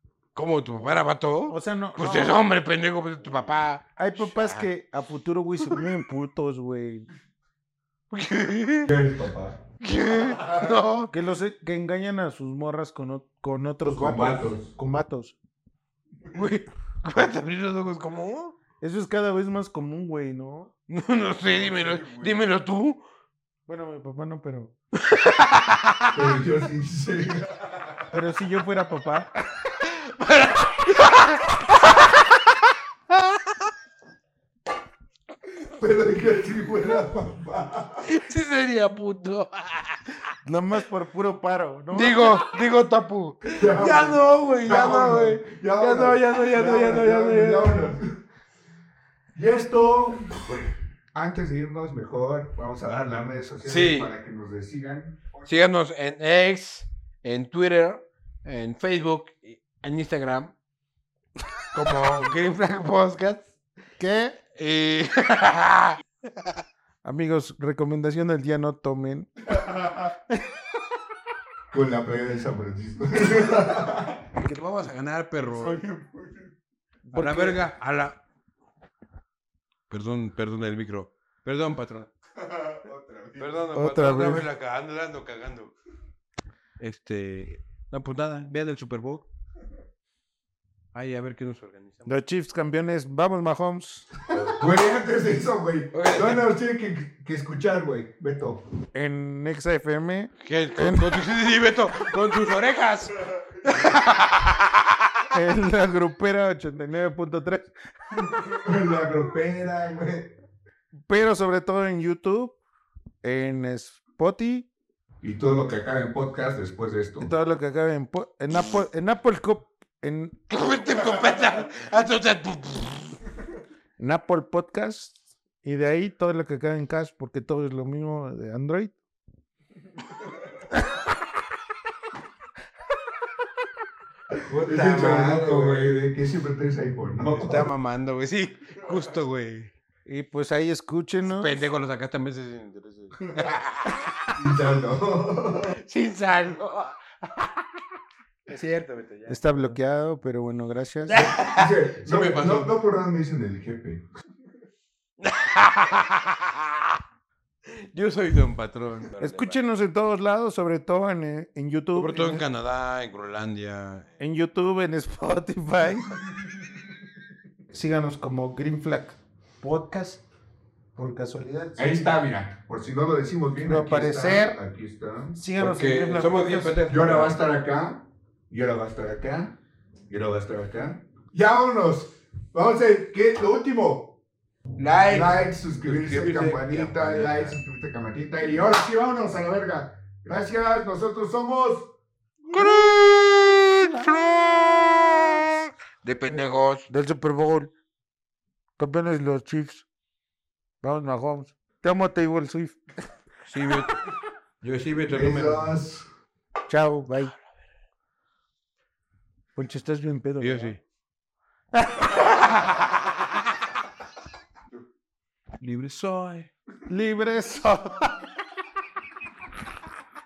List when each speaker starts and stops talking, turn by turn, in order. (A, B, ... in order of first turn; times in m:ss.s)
0:00.3-0:04.6 A
0:01.5-0:02.4 B
0:04.0-0:07.1 B
0:08.1-0:08.9 A
0:08.9-0:09.6 C
0:09.8-0:11.1 A
0:11.1-0:15.4 B
0:13.8-0:14.7 C
0:16.3-0:18.6 A
0:18.8-0:20.7 B
0:20.9-0:23.0 A
0:21.7-0:22.3 C
0:23.7-0:24.8 B
0:25.1-0:26.1 A
0:26.1-0:27.7 C
0:28.1-0:29.3 B
0:29.7-0:31.4 A
0:35.6-0:38.1 C
0:38.0-0:40.2 A
0:40.4-0:42.4 B
0:41.9-0:47.8 A
0:43.4-0:48.2 C
0:49.3-0:50.5 C
0:51.1-0:55.4 C
0:53.6-0:54.1 A
0:55.4-1:00.5 A
1:01.7-1:03.5 A
1:04.0-1:04.4 B
1:04.5-1:06.0 A
1:07.0-1:10.1 B
1:11.7-1:14.2 C
1:14.3-1:15.8 A
1:15.5-1:16.5 C
1:17.1-1:17.6 B
1:17.1-1:18.2 A
1:19.9-1:22.1 A
1:22.4-1:23.7 C
1:23.4-1:25.7 A
1:23.7-1:24.4 B
1:26.8-1:29.3 A
1:30.9-1:32.1 A
1:32.0-1:34.1 B
1:34.3-1:34.7 A
1:34.3-1:38.6 C
1:35.9-1:36.4 A
1:38.9-1:41.3 B
1:40.4-1:45.0 A
1:45.3-1:47.7 B
1:48.6-1:50.3 C
1:51.1-1:52.6 B
1:53.2-1:54.7 B
1:55.2-1:57.3 C
1:57.2-2:00.4 B
2:00.5-2:03.2 A
2:04.0-2:09.0 B
2:14.4-2:15.9 A
2:14.6-2:17.7 C
2:17.2-2:19.7 A
2:20.0-2:21.5 B
2:21.2-2:24.4 A
2:24.3-2:25.8 C
2:25.7-2:27.1 A
2:28.5-2:29.7 A
2:29.3-2:31.3 B
2:31.1-2:32.7 A
2:31.3-2:34.0 C
2:35.2-2:37.0 A
2:37.6-2:39.6 A
2:39.2-2:42.4 B
2:42.0-2:44.1 A
2:44.2-2:46.2 B
2:47.7-2:50.2 B
2:50.9-2:52.0 B
2:51.8-2:55.4 C
2:53.5-2:54.6 B
2:55.4-2:56.8 B
2:55.6-2:57.4 A
2:56.9-2:59.6 C
3:00.1-3:04.1 C
3:04.8-3:07.6 A
3:05.0-3:11.9 C
3:12.5-3:16.9 A
3:16.9-3:17.7 B
3:18.8-3:19.8 B
3:20.8-3:22.8 B
3:23.5-3:24.0 A
3:24.6-3:25.7 A
3:25.1-3:26.1 C
3:26.7-3:27.3 B
3:29.6-3:30.7 B
3:30.4-3:30.8 A
3:31.8-3:32.2 B
3:35.6-3:36.5 A
3:36.9-3:38.2 B